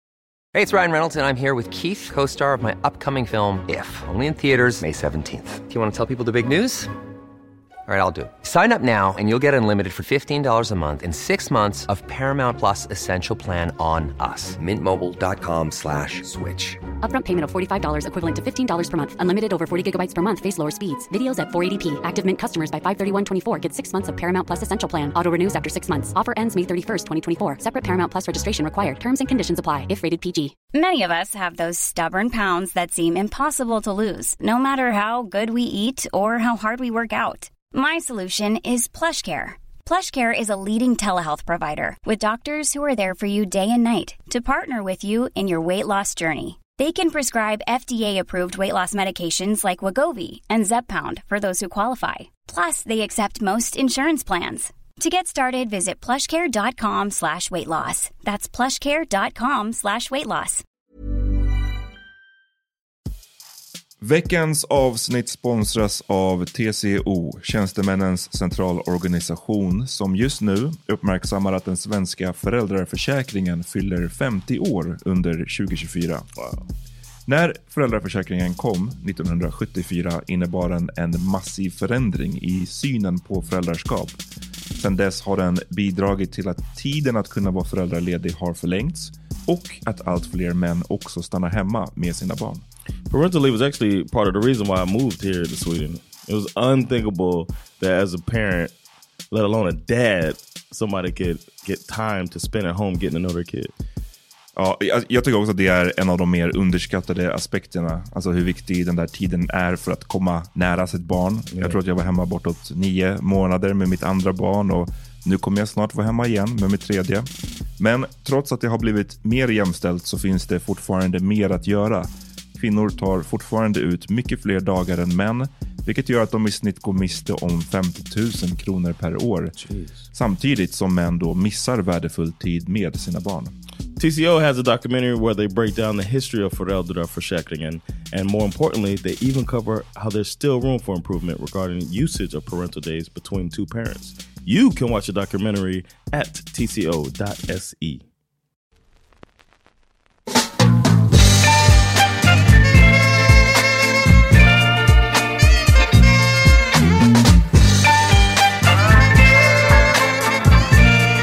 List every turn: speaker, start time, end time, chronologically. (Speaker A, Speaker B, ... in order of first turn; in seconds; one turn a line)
Speaker A: 0.5-6.9
Speaker A: 7.9-16.8
Speaker B: 17.0-30.6
Speaker C: 30.7-60.6
Speaker D: 64.0-76.3
Speaker D: 77.3-84.2
Speaker D: 84.8-92.7
Speaker E: 93.1-98.7
Speaker E: 99.3-103.7
Speaker D: 104.6-129.5
Speaker E: 129.6-130.0
Speaker D: 130.1-133.5
Speaker E: 134.0-148.1